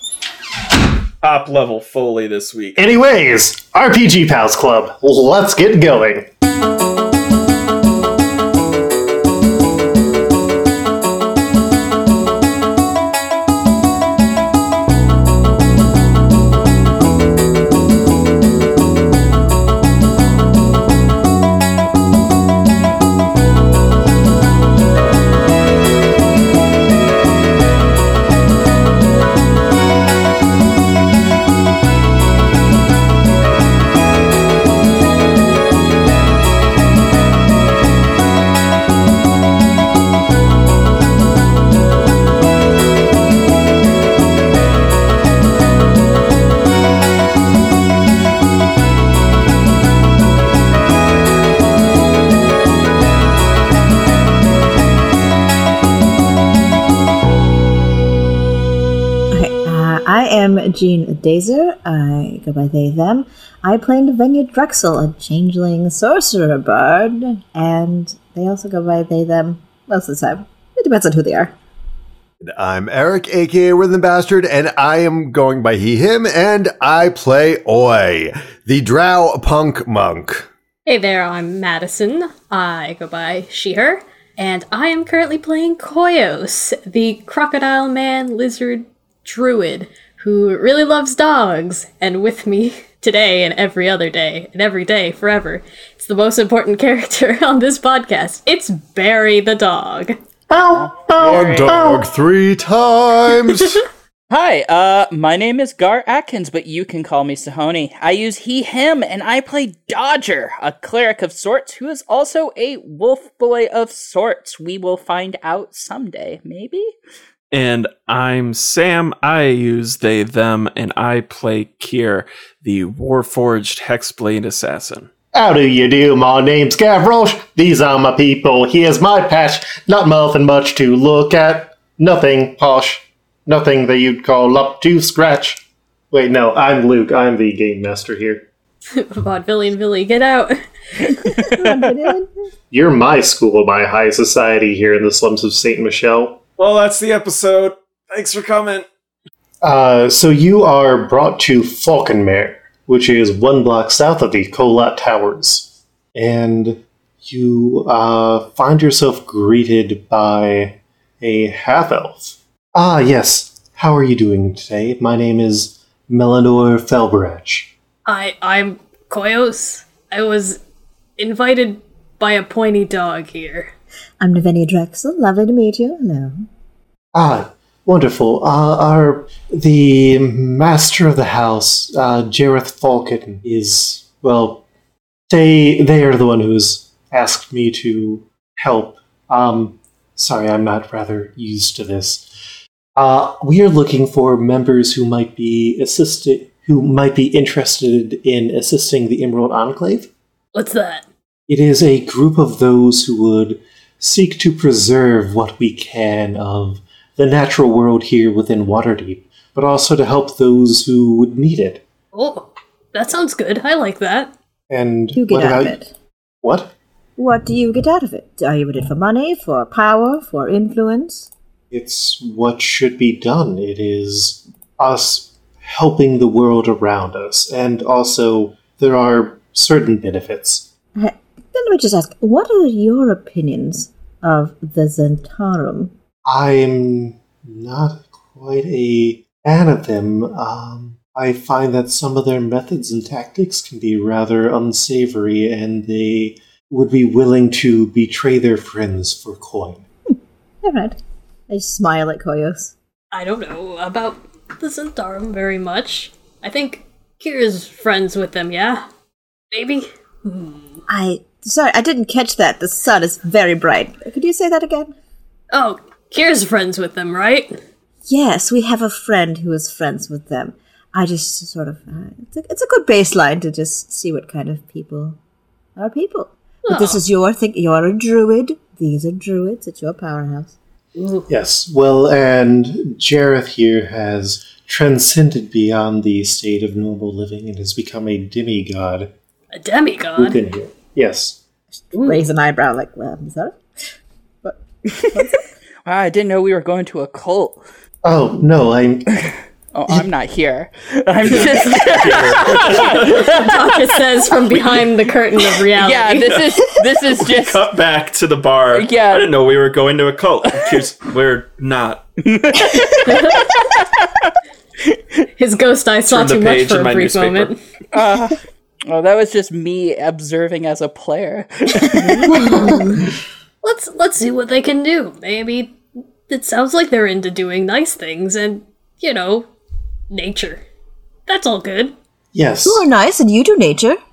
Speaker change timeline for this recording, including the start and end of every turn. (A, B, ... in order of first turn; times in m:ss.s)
0:01.2-0:02.8 A
0:02.8-0:06.3 B
0:59.3-1:11.5 C
1:12.4-1:20.5 D
1:20.8-1:40.2 E
1:40.5-1:42.0 B
1:40.7-1:42.0 F
1:41.1-1:43.8 D
1:44.3-1:56.9 F
1:57.5-2:05.1 A
2:05.3-2:18.4 B
2:18.9-2:20.6 E
2:21.5-2:22.5 C
2:22.7-2:26.4 B
2:26.6-2:28.8 A
2:29.6-2:47.7 B
2:48.0-2:50.6 E
2:51.2-2:53.7 E
2:54.2-2:56.5 C
2:57.1-3:04.6 B
3:05.3-3:12.3 B
3:13.0-3:20.1 B
3:20.5-3:21.0 E
3:21.5-3:31.8 B
3:32.1-3:34.3 E
3:34.7-3:35.8 B
3:35.1-3:35.9 C
3:36.4-3:36.7 B
3:37.2-3:41.3 C
3:41.7-3:50.7 B
3:51.0-3:55.9 C
3:56.2-4:09.8 B
4:10.1-4:12.7 C
4:13.1-4:18.8 E
4:19.5-4:20.8 E
4:20.9-4:24.9 C
4:25.5-4:27.5 E
4:28.1-4:35.2 C
4:35.8-4:40.5 C
4:36.6-4:37.0 E
4:41.0-4:41.3 E
4:41.3-4:49.1 B
4:49.5-4:50.4 E
4:50.2-4:51.4 B
4:51.9-4:53.6 C
4:51.9-4:52.2 E
4:54.4-4:55.5 C
4:54.9-4:55.2 F
4:55.8-4:57.6 F
4:58.0-4:59.1 B
4:59.7-5:04.8 F
5:01.2-5:03.3 A
5:03.0-5:06.3 E
5:05.6-5:07.6 F
5:06.2-5:12.0 A
5:08.7-5:09.3 F
5:12.2-5:15.0 F
5:13.0-5:13.5 E
5:15.4-5:17.6 E
5:16.1-5:17.5 A
5:17.9-5:22.7 F
5:22.2-5:23.0 E
5:22.3-5:22.8 C
5:23.6-5:25.8 E
5:26.3-5:29.5 E
5:30.1-5:30.6 E
5:31.3-5:31.9 E
5:32.3-5:32.8 B
5:32.6-5:34.0 C